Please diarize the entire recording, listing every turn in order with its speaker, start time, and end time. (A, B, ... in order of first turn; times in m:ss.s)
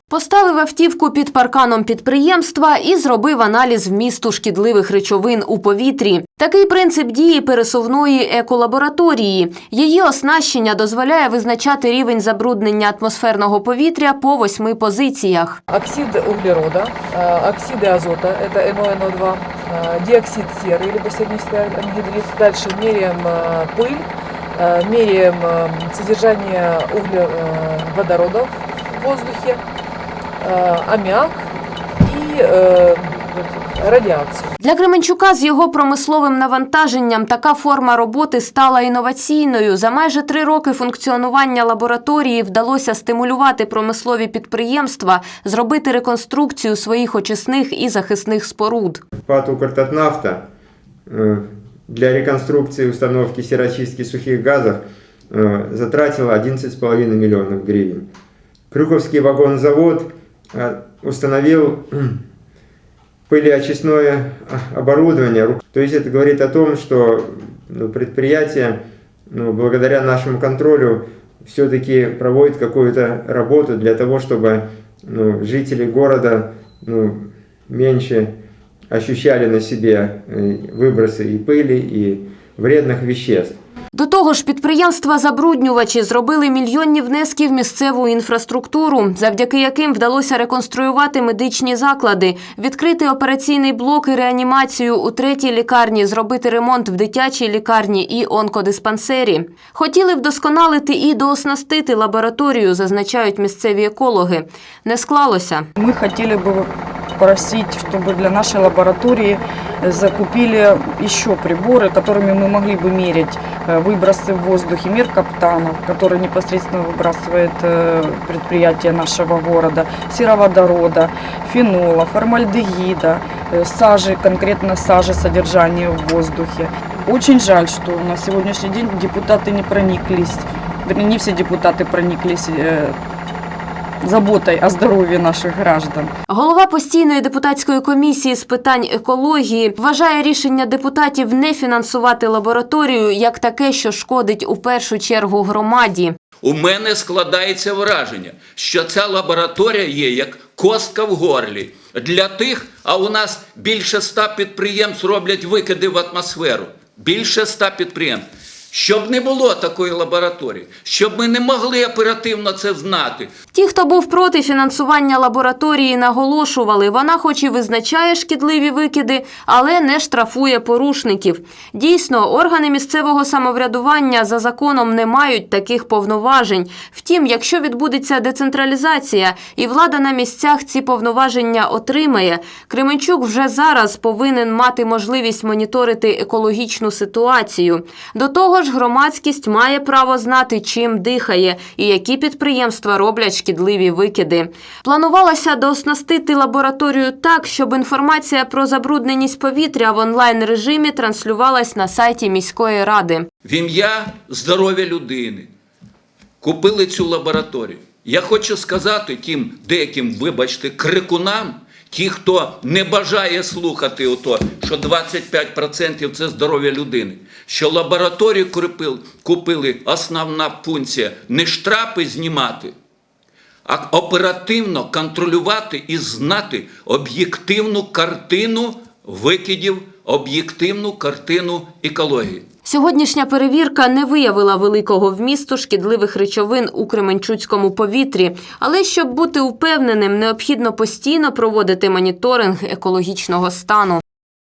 0:00.1-0:15.6 A
0:15.7-0:29.6 B
0:30.4-0:31.4 B
0:32.0-0:34.5 B
0:34.6-0:49.0 A
0:49.2-0:50.4 C
0:51.1-0:58.1 C
0:58.7-1:02.2 C
1:03.3-1:18.3 C
1:18.9-1:23.6 C
1:23.9-1:45.6 A
1:45.8-2:13.0 D
2:14.0-2:16.1 D
2:16.3-2:26.1 A
2:26.4-2:43.3 E
2:43.5-3:23.2 A
3:23.4-3:25.5 E
3:26.4-3:42.7 E
3:43.7-3:52.4 E
3:52.6-4:04.0 A